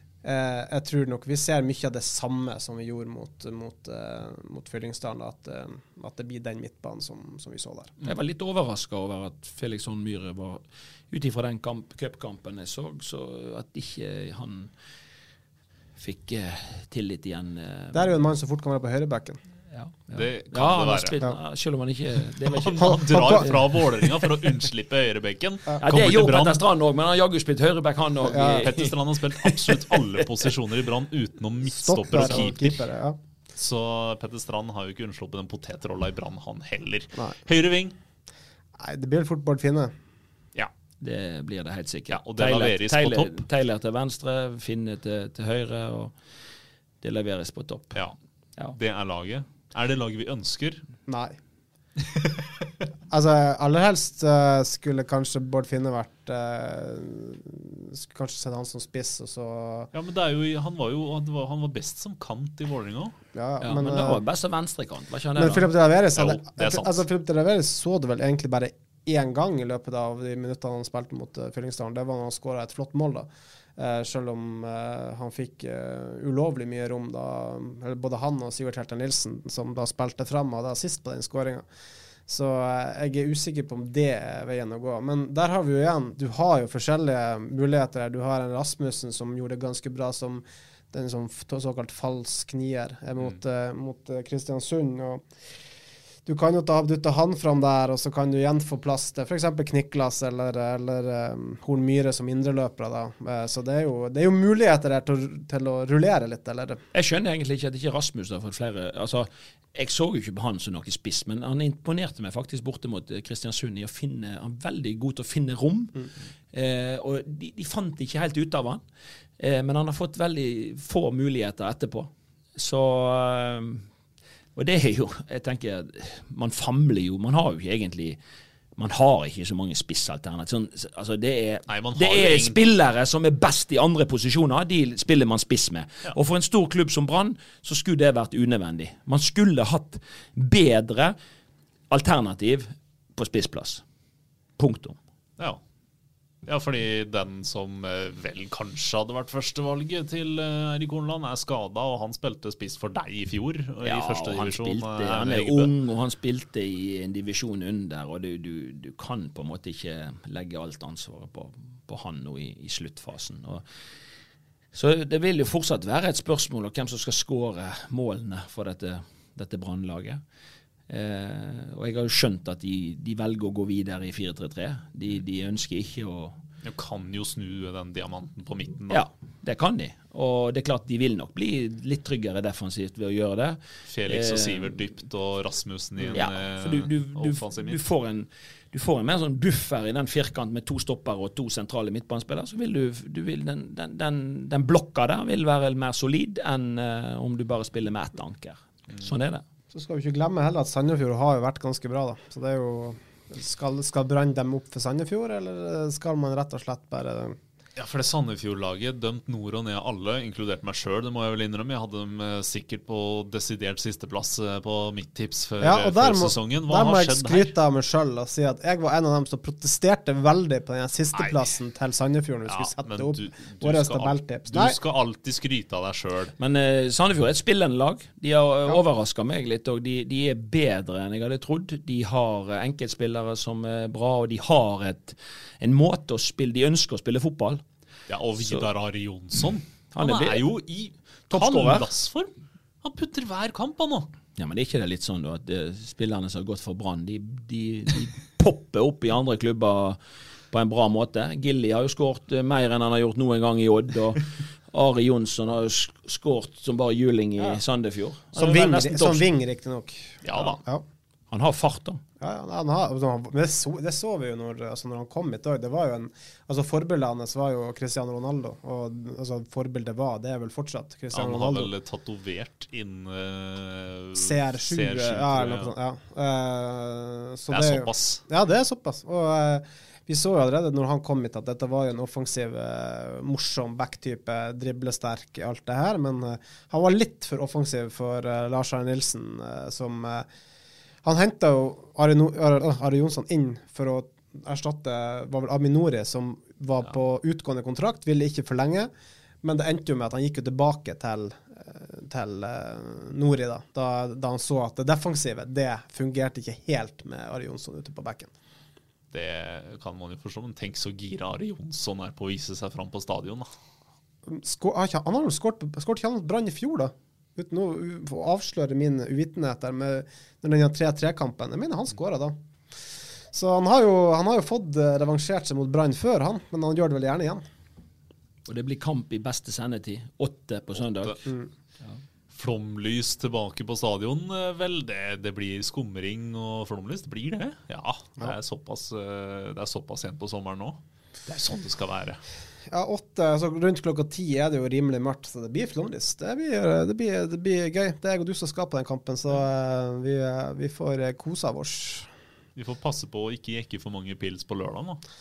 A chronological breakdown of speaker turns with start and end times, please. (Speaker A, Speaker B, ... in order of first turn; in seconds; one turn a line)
Speaker A: 0.2-7.9
Speaker B: 8.0-14.7
Speaker B: 16.0-18.1
Speaker A: 17.9-19.4
Speaker B: 19.7-23.5
Speaker C: 20.1-21.2
Speaker C: 22.5-26.6
Speaker A: 22.8-23.8
Speaker B: 25.8-30.0
Speaker A: 28.2-28.7
Speaker C: 28.6-32.8
Speaker A: 31.7-33.2
Speaker C: 33.5-37.9
Speaker A: 38.8-39.9
Speaker B: 41.0-46.1
Speaker C: 42.1-43.4
Speaker B: 47.0-48.0
Speaker C: 48.7-50.8
Speaker A: 51.1-51.4
Speaker A: 53.1-59.9
Speaker C: 59.9-63.1
Speaker A: 63.3-64.2
Speaker B: 63.6-65.7
Speaker A: 65.3-81.6
Speaker C: 66.1-67.0
Speaker A: 82.3-95.2
Speaker A: 96.2-106.8
Speaker B: 106.9-115.9
Speaker B: 116.5-118.8
Speaker B: 119.4-123.8
Speaker B: 124.5-128.2
Speaker B: 128.8-141.1
Speaker C: 131.7-132.6
Speaker B: 141.9-143.8
Speaker B: 144.6-145.0
Speaker C: 146.5-155.7
Speaker B: 153.8-163.6
Speaker B: 164.7-170.2
Speaker B: 170.9-176.4
Speaker C: 176.6-179.0
Speaker B: 178.9-184.8
Speaker C: 183.9-187.8
Speaker B: 186.1-199.4
Speaker A: 199.7-207.4
Speaker C: 207.8-217.5
Speaker A: 215.6-224.8
Speaker C: 221.1-221.4
Speaker C: 222.5-226.3
Speaker B: 226.4-237.6
Speaker C: 238.1-242.3
Speaker B: 238.4-238.7
Speaker B: 239.9-240.4
Speaker B: 241.3-241.9
Speaker C: 242.8-244.1
Speaker B: 244.3-250.0
Speaker B: 250.5-259.2
Speaker A: 258.3-260.8
Speaker C: 260.2-260.6
Speaker B: 261.3-262.0
Speaker A: 262.2-271.7
Speaker C: 271.1-275.7
Speaker A: 274.1-290.2
Speaker C: 277.5-278.2
Speaker A: 291.0-298.9
Speaker A: 299.4-308.3
Speaker C: 309.1-313.5
Speaker A: 314.3-322.4
Speaker A: 323.3-327.4
Speaker B: 328.5-331.2
Speaker C: 332.3-342.2
Speaker A: 342.7-352.1
Speaker C: 352.6-355.0